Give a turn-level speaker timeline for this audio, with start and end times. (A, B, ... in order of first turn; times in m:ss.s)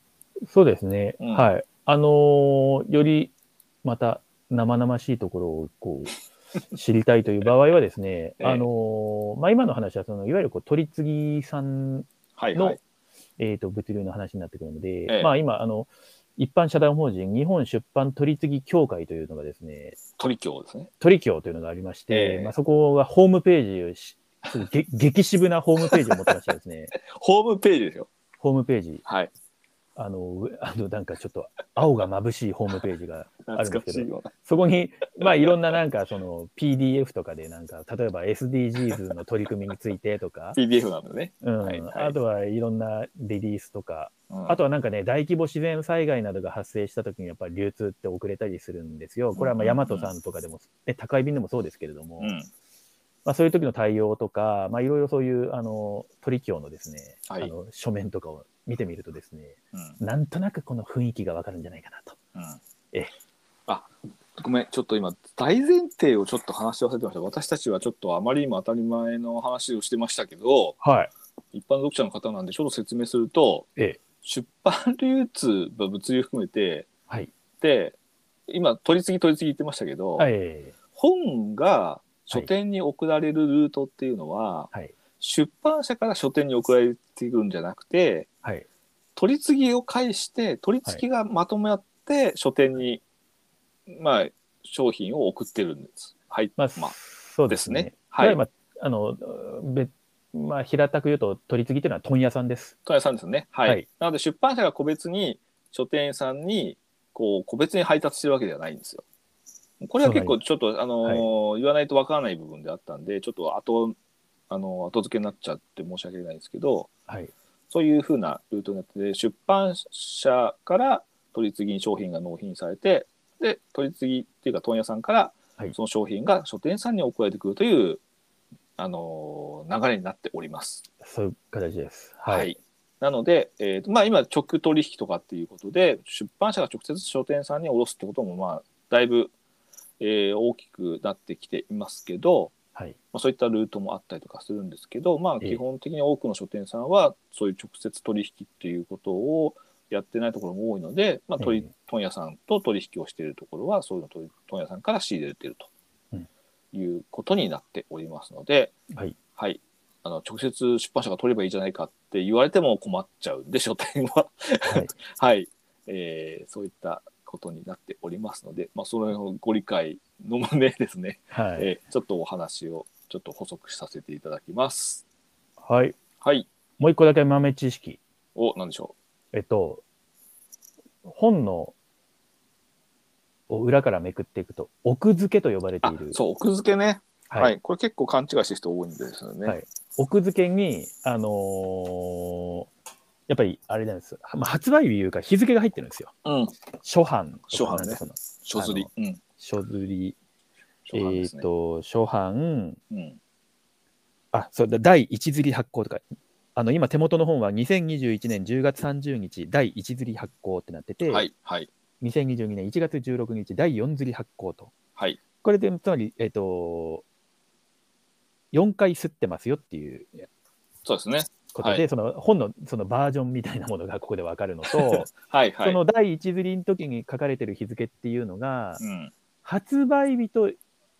0:00.4-0:03.3 A
0:01.2-0:01.5 B
0:03.8-0:06.2 A
0:06.7-0:12.8 A
0:08.4-0:08.7 B
0:12.4-0:12.8 B
0:13.4-0:20.0 A
0:15.1-0:15.3 B
0:20.2-0:20.9 B
0:21.0-0:26.9 A
0:22.1-0:22.5 B
0:25.9-0:26.3 B
0:26.9-0:28.1 B
0:28.4-0:29.0 A
0:29.0-0:29.3 B
0:30.0-0:40.6 A
0:33.5-0:34.3 B
0:35.2-0:35.5 B
0:40.5-0:42.2 B
0:41.4-0:52.3 A
0:44.3-0:44.6 B
0:49.3-0:50.1 B
0:52.2-0:52.5 B
0:53.2-1:02.2 A
0:57.3-0:57.5 B
0:59.7-1:00.0 B
1:03.7-1:10.8 B
1:10.8-1:11.1 A
1:11.5-1:13.7 B
1:14.2-1:16.9 B
1:17.6-1:18.0 B
1:18.5-1:20.3 B
1:20.2-1:20.8 A
1:21.0-1:28.3 B
1:29.2-1:33.0 B
1:33.9-1:37.0 B
1:36.6-1:42.7 A
1:37.5-1:38.4 B
1:42.9-1:49.0 B
1:49.8-1:54.0 B
1:50.0-1:50.4 A
1:54.5-1:56.9 B
1:57.1-1:57.3 A
1:57.7-2:08.0 B
2:08.8-2:10.8 B
2:11.0-2:12.5 A
2:12.3-2:19.3 B
2:20.0-2:22.5 B
2:23.1-2:35.7 B
2:31.4-2:31.7 A
2:36.7-2:38.7 B
2:39.4-2:55.0 B
2:51.3-2:51.7 A
2:55.6-2:56.0 A
2:56.2-2:56.5 B
2:56.8-2:58.0 A
2:58.4-2:58.9 B
2:59.3-2:59.8 A
3:01.0-3:01.7 A
3:03.5-3:06.2 A
3:05.8-3:09.6 B
3:09.4-3:12.7 A
3:13.3-3:16.1 A
3:16.2-3:16.5 B
3:16.8-3:20.2 A
3:17.5-3:19.2 B
3:20.8-3:21.5 B
3:20.9-3:22.8 A
3:22.9-3:23.2 B
3:24.3-3:26.0 A
3:26.6-3:31.3 A
3:31.1-3:31.7 B
3:32.0-3:34.7 A
3:35.4-3:37.0 A
3:38.5-3:40.3 A
3:40.8-3:41.8 B
3:41.5-3:48.8 A
3:44.6-3:45.8 B
3:48.8-3:49.1 B
3:49.4-3:50.6 A